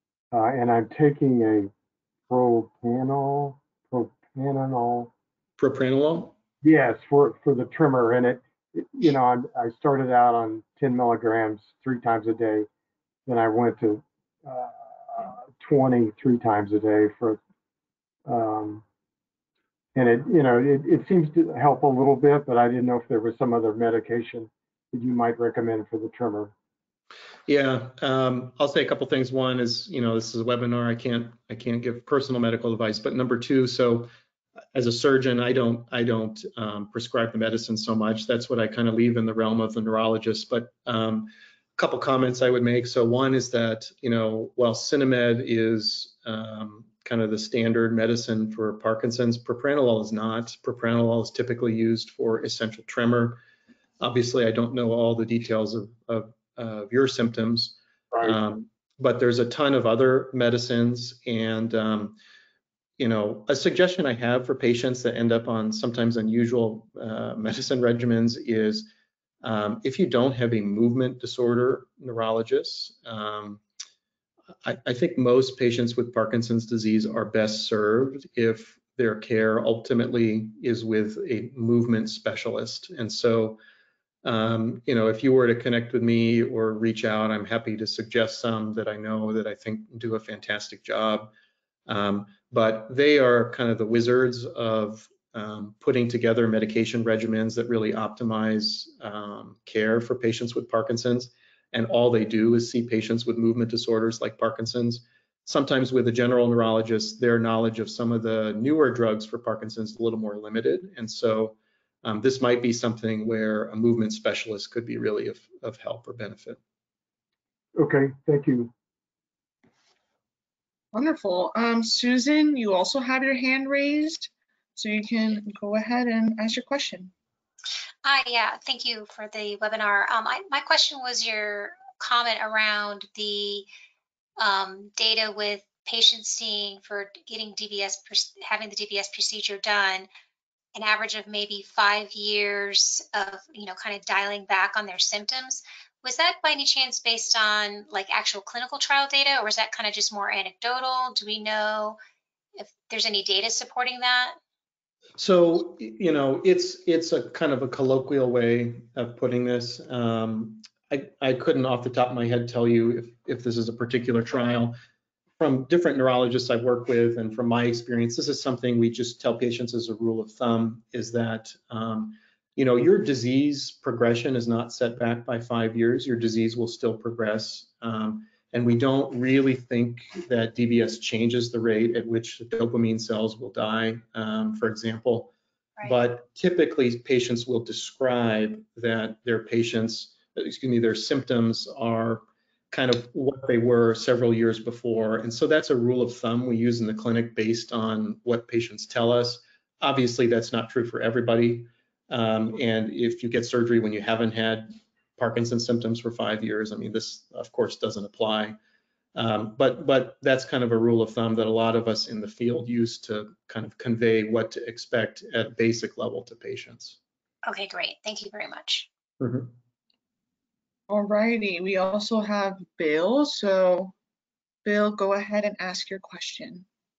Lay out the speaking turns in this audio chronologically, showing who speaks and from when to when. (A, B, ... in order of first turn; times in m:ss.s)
0:00.3-0:01.7 A
0:02.3-0:05.1 A
0:05.6-0:06.3 B
0:06.6-0:12.7 A
0:13.3-0:17.4 A
0:18.3-0:18.8 A
0:20.0-0:26.5 A
0:27.5-0:34.1 B
0:34.8-0:53.4 B
0:54.0-1:02.2 B
1:03.0-1:08.9 B
1:09.4-1:13.6 B
1:14.6-1:23.6 B
1:24.2-1:31.3 B
1:31.9-1:56.6 B
1:57.8-1:58.7 A
2:00.9-2:07.1 C
2:08.0-2:13.7 D
2:14.4-2:20.1 D
2:20.8-2:32.0 D
2:32.6-2:34.4 D
2:35.2-2:44.8 B
2:45.4-3:28.6 B
3:29.2-3:37.0 B
3:37.5-3:38.9 D
3:39.2-3:39.5 B
3:40.9-3:43.9 C
3:44.6-3:46.6 C